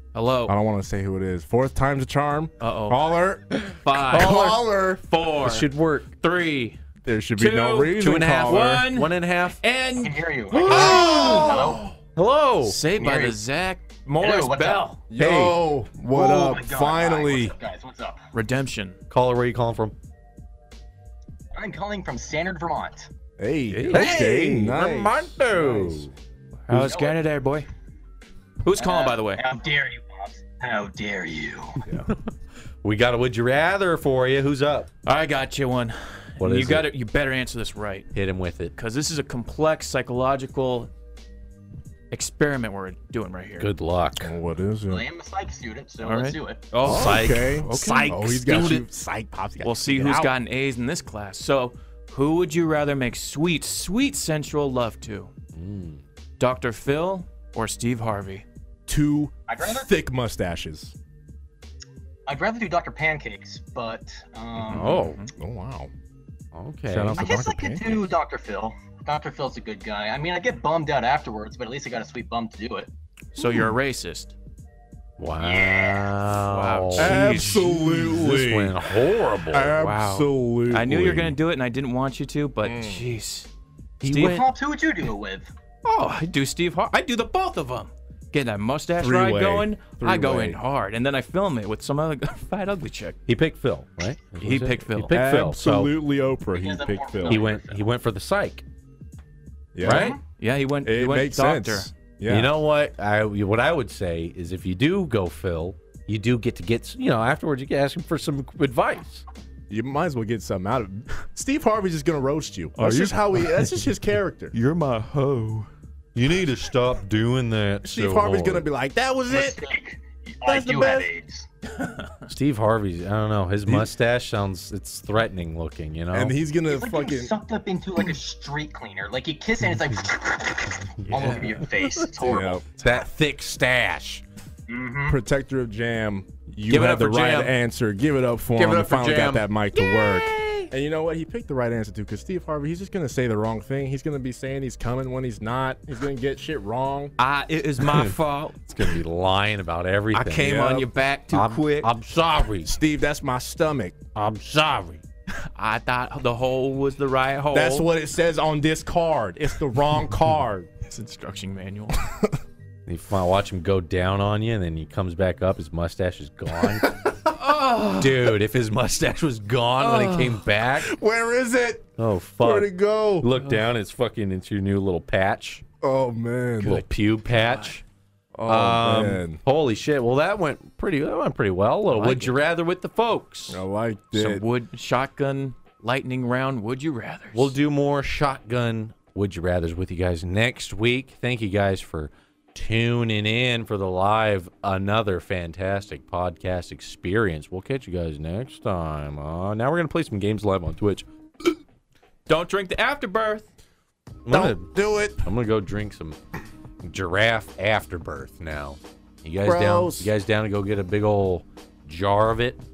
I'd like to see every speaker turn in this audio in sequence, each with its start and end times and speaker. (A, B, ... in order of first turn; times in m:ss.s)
0:00.1-0:00.6 A
0:00.5-0:05.0 B
0:02.6-0:05.7 A
0:05.4-0:06.1 C
0:06.2-0:06.8 A
0:07.0-0:08.9 B
0:07.4-0:11.7 A
0:08.0-0:09.6 C
0:10.0-0:11.9 D
0:10.6-0:11.8 B
0:10.6-0:11.5 C
0:12.2-0:12.8 C
0:12.6-0:15.5 A
0:12.9-0:13.4 D
0:14.2-0:14.9 D
0:15.1-0:17.5 B
0:16.1-0:18.2 D
0:18.3-0:19.0 A
0:19.1-0:20.0 C
0:21.6-0:23.1 D
0:23.4-0:26.1 B
0:23.7-0:24.2 A
0:23.9-0:26.1 C
0:26.7-0:27.7 A
0:26.7-0:27.2 D
0:28.6-0:29.4 A
0:28.8-0:31.9 D
0:31.8-0:32.1 B
0:32.8-0:34.9 C
0:35.1-0:38.1 A
0:36.4-0:36.9 C
0:38.1-0:38.8 C
0:38.8-0:40.9 A
0:42.1-0:43.7 A
0:43.6-0:44.3 C
0:44.2-0:45.0 B
0:44.9-0:46.7 D
0:46.0-0:48.1 A
0:46.8-0:48.9 C
0:46.8-0:50.3 B
0:49.6-0:55.3 A
0:55.5-0:56.0 C
0:56.4-0:58.4 A
0:58.9-1:00.9 B
0:59.5-0:59.9 D
1:02.3-1:05.1 D
1:04.7-1:05.2 C
1:04.7-1:05.3 A
1:05.4-1:05.9 B
1:06.5-1:07.3 C
1:06.9-1:08.1 B
1:07.2-1:12.9 D
1:13.3-1:14.3 A
1:13.4-1:13.7 B
1:15.2-1:19.8 C
1:15.4-1:16.1 D
1:16.3-1:17.9 A
1:17.0-1:18.8 B
1:19.5-1:21.4 B
1:19.8-1:23.5 A
1:22.6-1:23.0 B
1:24.0-1:24.5 C
1:24.0-1:24.5 A
1:24.2-1:25.5 D
1:25.8-1:33.2 A
1:29.0-1:30.6 B
1:33.3-1:35.9 C
1:34.4-1:35.2 A
1:35.1-1:37.4 B
1:36.5-1:37.8 D
1:37.2-1:38.6 C
1:39.8-1:40.2 B
1:39.8-1:40.2 C
1:39.8-1:40.2 D
1:40.4-1:41.9 A
1:40.8-1:42.5 B
1:42.3-1:49.2 C
1:49.7-1:54.6 B
1:52.8-1:53.9 A
1:54.5-1:55.7 A
1:56.2-1:58.7 C
1:57.8-1:59.6 B
1:59.3-2:01.5 D
2:00.5-2:01.1 A
2:01.8-2:02.2 A
2:02.3-2:06.4 C
2:06.1-2:07.4 B
2:06.7-2:12.6 D
2:11.1-2:11.6 A
2:12.2-2:12.6 B
2:12.8-2:14.2 C
2:14.7-2:15.2 D
2:15.1-2:27.1 B
2:16.7-2:17.6 C
2:18.6-2:19.5 C
2:19.7-2:20.7 A
2:27.2-2:28.6 A
2:27.8-2:30.5 C
2:30.1-2:31.9 A
2:30.4-2:30.9 B
2:31.3-2:32.7 C
2:32.6-2:34.0 B
2:34.2-2:35.0 C
2:35.6-2:37.9 A
2:37.5-2:40.7 B
2:40.9-2:42.0 A
2:42.9-2:46.9 C
2:47.3-2:48.3 A
2:47.9-2:50.9 C
2:49.8-2:50.4 A
2:50.8-2:51.8 B
2:52.0-2:55.6 C
2:52.4-2:53.3 B
2:55.8-2:56.8 B
2:56.6-2:57.8 C
2:57.3-2:57.8 A
2:58.4-2:59.4 B
2:58.5-3:03.6 C
3:01.9-3:02.4 A
3:03.5-3:04.4 B
3:04.1-3:07.6 A
3:07.3-3:21.0 C
3:22.3-3:23.5 A
3:24.3-3:26.2 C
3:24.3-3:25.2 B
3:26.8-3:32.6 C
3:29.4-3:30.1 B